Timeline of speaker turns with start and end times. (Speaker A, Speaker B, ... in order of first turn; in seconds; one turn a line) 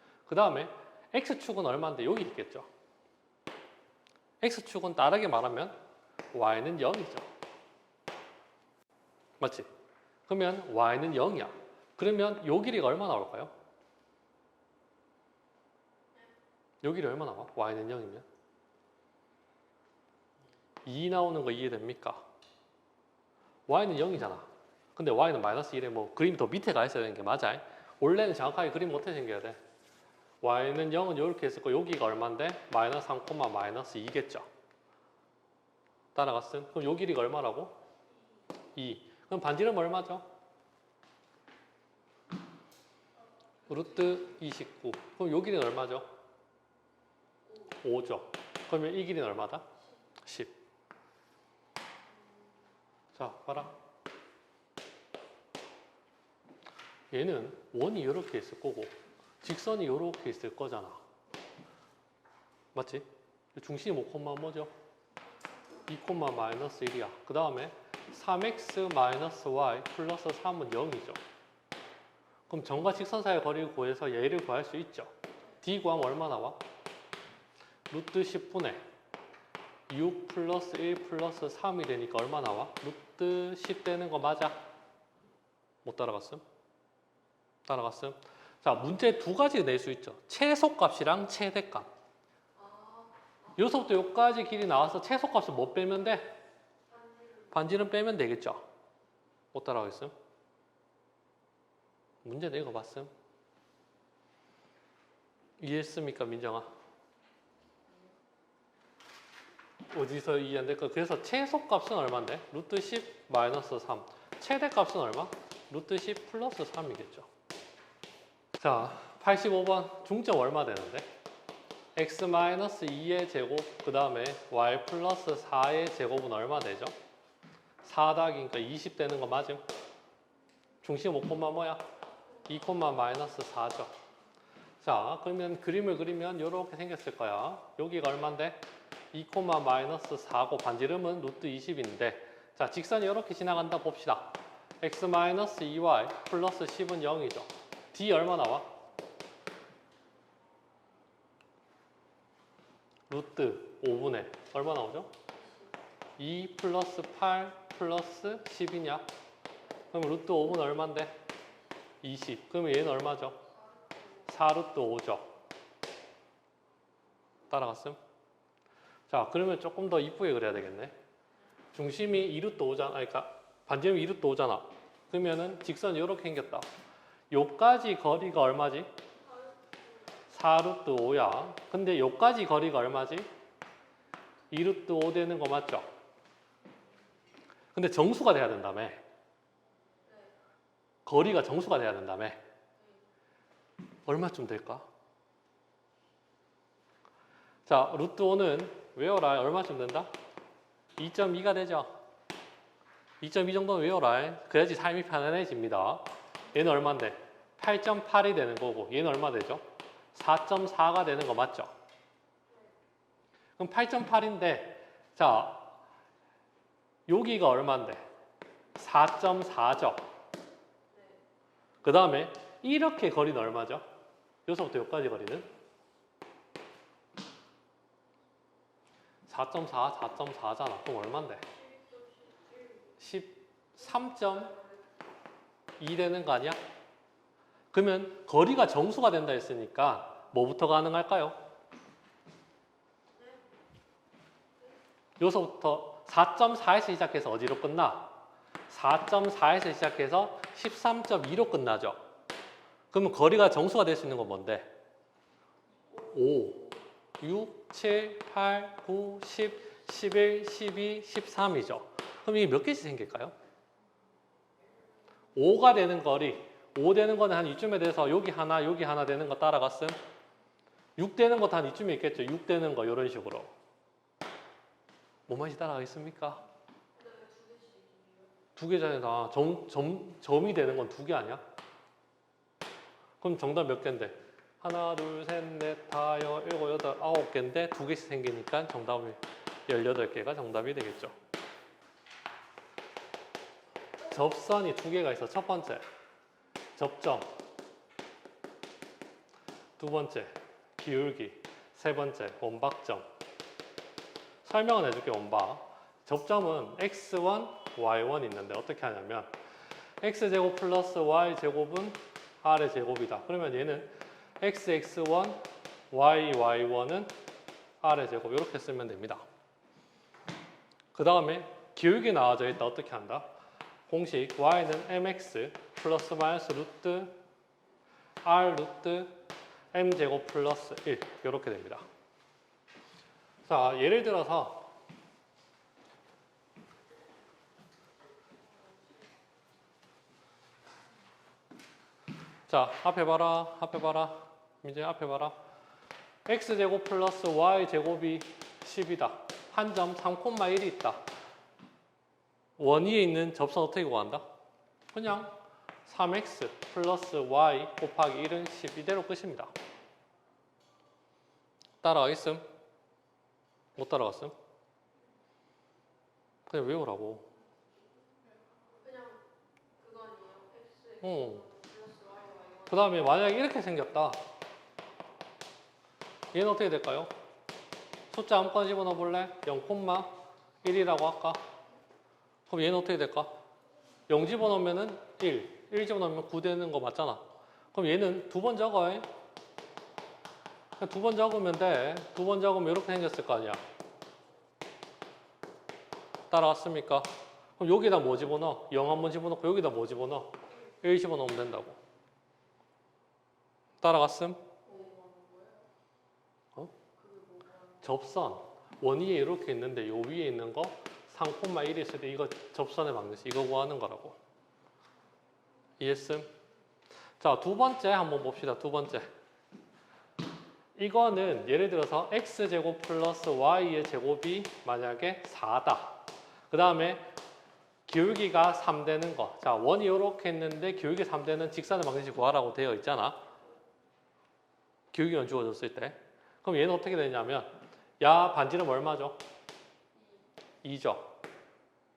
Speaker A: 0.3-2.7
Speaker A: 4.4-5.8
Speaker A: 6.3-7.3
Speaker A: 9.4-9.7
Speaker A: 10.3-13.5
Speaker A: 16.8-18.2
Speaker A: 20.8-22.2
Speaker A: 23.7-29.6
Speaker A: 30.4-34.5
Speaker A: 36.1-37.8
Speaker A: 38.7-40.3
Speaker A: 43.7-46.1
Speaker B: 47.4-47.8
Speaker A: 47.8-49.7
Speaker A: 50.2-50.5
Speaker B: 52.1-52.5
Speaker A: 53.1-53.7
Speaker A: 57.1-61.0
Speaker A: 62.7-64.7
Speaker B: 65.4-65.9
Speaker A: 65.9-71.2
Speaker A: 72.5-76.6
Speaker A: 77.9-78.8
Speaker A: 79.9-84.7
Speaker A: 85.8-86.4
Speaker A: 87.7-91.9
Speaker B: 92.5-93.6
Speaker A: 93.5-96.4
Speaker B: 96.9-97.8
Speaker A: 97.5-98.7
Speaker A: 99.5-100.1
Speaker A: 102.2-103.1
Speaker A: 105.6-106.7
Speaker A: 109.9-117.3
Speaker A: 118.6-121.1
Speaker A: 122.0-126.9
Speaker A: 127.8-129.6
Speaker A: 130.8-131.8
Speaker B: 132.2-132.8
Speaker A: 132.4-133.9
Speaker A: 134.8-148.7
Speaker A: 153.1-155.1
Speaker B: 155.3-155.8
Speaker A: 156.2-159.1
Speaker A: 159.9-161.2
Speaker A: 162.0-163.4
Speaker B: 163.4-164.3
Speaker A: 164.3-165.3
Speaker A: 167.5-168.0
Speaker A: 169.1-170.9
Speaker A: 171.7-176.7
Speaker A: 177.3-178.9
Speaker B: 179.2-180.3
Speaker A: 180.3-183.3
Speaker A: 184.5-185.9
Speaker A: 187.7-189.0
Speaker B: 190.0-190.3
Speaker A: 191.1-192.4
Speaker A: 194.1-194.8
Speaker A: 197.7-200.1
Speaker A: 201.0-201.9
Speaker A: 203.2-209.6
Speaker A: 210.1-211.7
Speaker B: 212.5-212.7
Speaker A: 213.6-215.8
Speaker A: 217.1-218.1
Speaker A: 218.8-220.1
Speaker B: 220.9-221.2
Speaker A: 221.8-223.8
Speaker A: 224.4-225.5
Speaker A: 229.3-231.4
Speaker B: 231.4-233.0
Speaker A: 233.0-234.5
Speaker B: 233.8-235.1
Speaker A: 235.8-236.6
Speaker A: 237.7-241.4
Speaker B: 243.1-243.4
Speaker A: 245.2-248.1
Speaker A: 248.7-252.0
Speaker A: 252.9-254.7
Speaker B: 255.9-256.8
Speaker A: 256.1-256.7
Speaker A: 257.2-263.3
Speaker A: 265.3-270.0
Speaker A: 271.0-273.5
Speaker A: 275.3-276.4
Speaker B: 276.9-278.4
Speaker A: 278.6-281.4
Speaker A: 283.2-291.1
Speaker A: 294.0-295.8
Speaker A: 296.8-297.4
Speaker A: 299.8-303.1
Speaker A: 304.4-309.3
Speaker A: 310.0-317.1
Speaker A: 317.8-319.2
Speaker A: 320.9-323.3
Speaker A: 323.9-327.2
Speaker A: 328.2-329.2
Speaker A: 329.7-331.9
Speaker A: 333.4-334.7
Speaker B: 338.3-339.1
Speaker A: 342.5-345.4
Speaker A: 346.2-351.1
Speaker A: 352.6-354.2
Speaker A: 354.9-359.5
Speaker A: 361.8-362.5
Speaker A: 363.8-364.3
Speaker A: 366.5-367.3
Speaker B: 368.6-369.2
Speaker B: 369.8-373.4
Speaker A: 371.0-371.4
Speaker A: 372.7-374.2
Speaker A: 376.3-377.1
Speaker A: 378.1-381.4
Speaker A: 382.5-383.4
Speaker A: 384.1-389.1
Speaker A: 390.8-393.6
Speaker A: 396.3-401.8
Speaker A: 403.8-404.4
Speaker B: 404.6-405.6
Speaker B: 406.9-407.8
Speaker A: 407.8-414.2
Speaker A: 415.8-416.3
Speaker A: 417.2-419.1
Speaker A: 420.8-427.1
Speaker A: 427.9-433.2
Speaker A: 434.9-439.2
Speaker B: 439.9-440.3
Speaker A: 440.6-441.1